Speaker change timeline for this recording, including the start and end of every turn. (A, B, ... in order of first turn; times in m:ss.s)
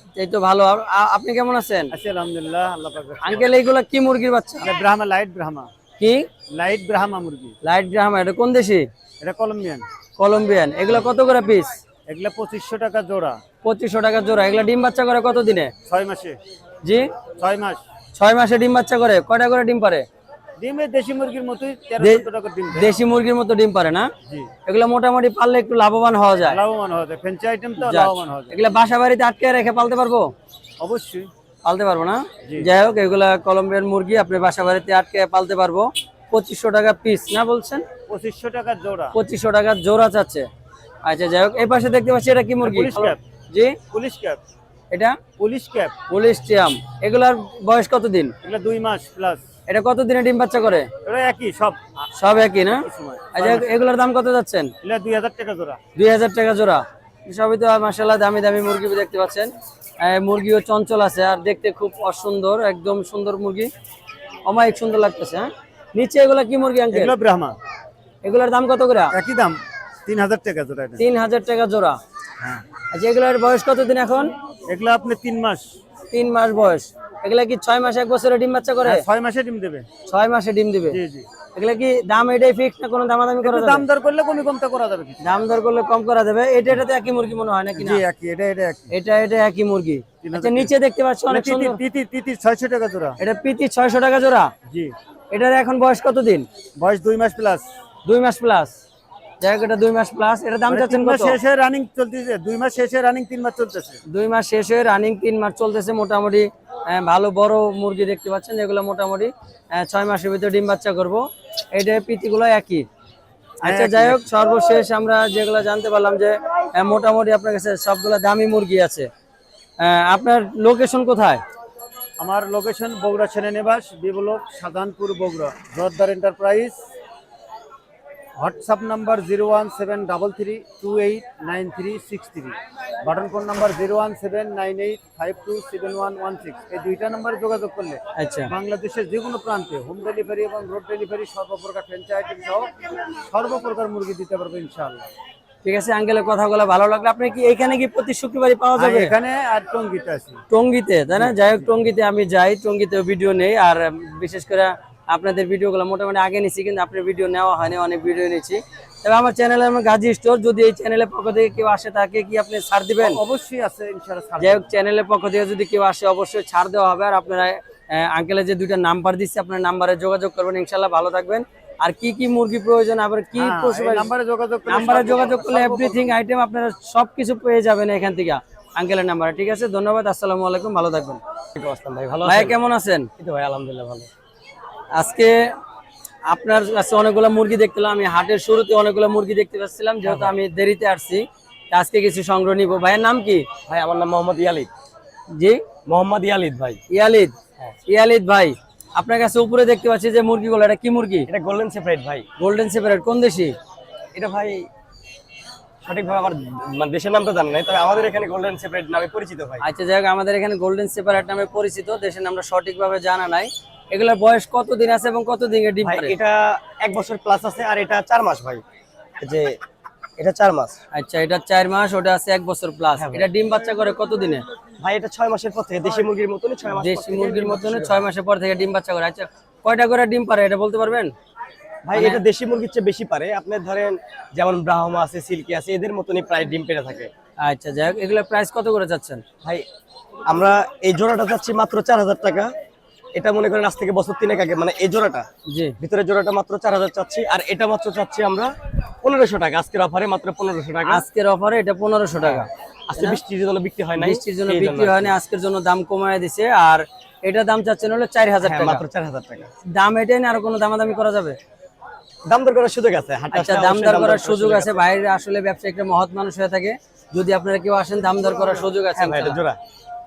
0:00.2-0:01.9 A
0:01.9-0:03.5 B
0:03.2-0:04.7 A
0:04.6-0:05.7 B
0:06.0-0:06.3 A
0:06.5-0:07.6 B
0:07.6-0:08.9 A
0:09.2-0:09.8 B
0:10.2-0:11.8 A
0:12.1-0:13.4 B
0:13.6-0:15.7 A
0:15.9-0:16.4 B
0:16.8-0:17.1 A
0:17.4-0:17.8 B
0:18.1-0:20.1 A
0:20.6-0:22.9 B
0:22.0-0:24.1 A
0:24.7-0:26.6 A
0:26.4-0:28.6 B
0:27.8-0:30.3 A
0:30.8-0:31.3 B
0:31.6-0:37.9 A
0:32.4-0:32.7 B
0:38.1-0:39.2 B
0:39.2-0:40.5 A
0:41.0-0:43.8 A
0:42.6-0:43.2 B
0:43.9-0:44.4 B
0:44.9-0:45.2 A
0:45.4-0:46.0 B
0:46.1-0:48.3 A
0:48.4-0:49.4 B
0:49.7-0:50.9 A
0:51.0-0:52.1 B
0:52.2-0:54.7 A
0:52.6-0:53.7 B
0:54.8-0:55.8 B
0:56.0-1:03.7 A
1:04.4-1:07.1 A
1:06.9-1:07.6 B
1:08.2-1:09.1 A
1:09.1-1:11.0 B
1:11.0-1:12.0 A
1:12.4-1:12.6 B
1:12.9-1:14.3 A
1:14.7-1:15.6 B
1:16.1-1:19.0 A
1:18.8-1:19.9 B
1:20.0-1:21.0 A
1:20.9-1:21.3 B
1:21.5-1:23.8 A
1:23.4-1:25.2 B
1:25.2-1:28.0 A
1:27.8-1:28.9 B
1:28.9-1:31.8 A
1:30.2-1:30.7 B
1:31.3-1:33.2 B
1:33.2-1:34.5 A
1:35.3-1:36.5 A
1:36.8-1:37.7 B
1:38.0-1:38.7 A
1:39.4-1:41.4 A
1:40.7-1:44.0 B
1:44.1-1:52.9 A
1:53.6-1:59.1 A
1:53.6-1:54.2 B
1:59.8-2:01.4 A
2:02.2-2:06.8 B
2:08.4-2:25.1 B
2:18.2-2:18.5 A
2:25.6-2:29.1 A
2:28.8-2:30.4 B
2:30.5-2:43.2 A
2:31.2-2:31.7 B
2:43.0-2:44.7 B
2:44.4-2:54.1 A
2:53.4-2:56.1 B
2:54.7-3:01.2 A
3:01.6-3:02.6 C
3:02.2-3:03.1 A
3:03.2-3:04.1 C
3:04.9-3:05.4 A
3:06.3-3:13.5 A
3:13.7-3:14.7 C
3:15.3-3:15.6 A
3:15.9-3:16.8 C
3:16.9-3:17.3 A
3:17.9-3:21.3 A
3:21.3-3:22.2 C
3:22.4-3:23.6 A
3:24.2-3:24.7 C
3:25.8-3:29.6 C
3:29.6-3:36.2 A
3:35.8-3:38.6 C
3:39.2-3:39.6 C
3:40.2-3:40.8 C
3:40.9-3:44.4 A
3:43.0-3:43.2 C
3:44.8-3:47.9 C
3:46.7-3:51.1 A
3:51.9-3:57.1 C
3:51.9-3:52.2 A
3:57.4-3:59.2 A
4:00.3-4:02.5 C
4:03.2-4:05.2 C
4:05.5-4:05.8 A
4:05.8-4:08.5 C
4:09.0-4:10.9 C
4:10.8-4:13.2 A
4:12.9-4:15.0 C
4:14.0-4:18.8 A
4:18.4-4:19.5 C
4:19.7-4:21.4 A
4:22.3-4:24.7 C
4:23.3-4:29.4 A
4:29.0-4:29.6 C